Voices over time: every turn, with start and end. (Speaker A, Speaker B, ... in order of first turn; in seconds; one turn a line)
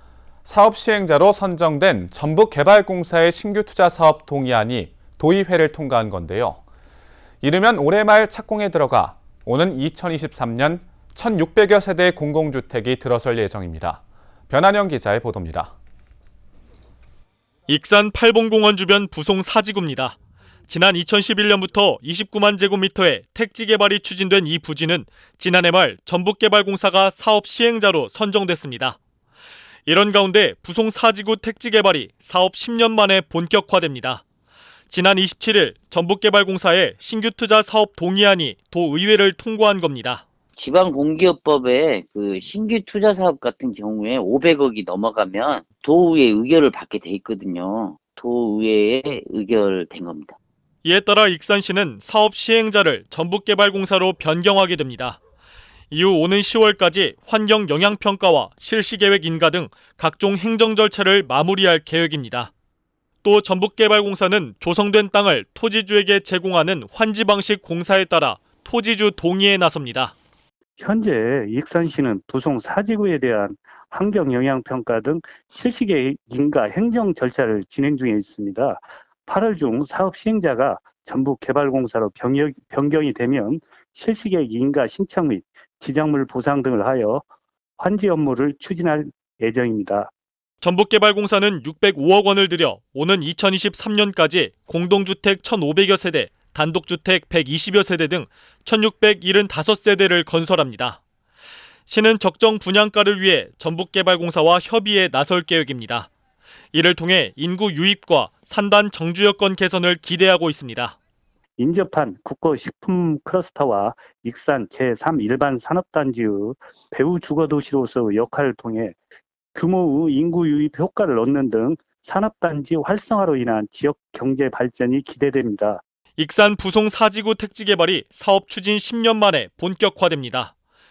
Speaker A: 0.4-6.6
Speaker A: 7.4-15.7
Speaker B: 17.7-20.2
Speaker B: 20.7-29.0
Speaker B: 29.9-34.2
Speaker B: 34.9-40.2
Speaker C: 40.6-50.4
Speaker B: 50.8-55.2
Speaker B: 55.9-62.5
Speaker B: 63.2-70.1
Speaker D: 70.8-87.2
Speaker D: 87.8-90.1
Speaker B: 90.6-101.0
Speaker B: 101.9-106.1
Speaker B: 106.7-111.0
Speaker D: 111.6-119.0
Speaker D: 119.5-125.8
Speaker B: 126.2-130.5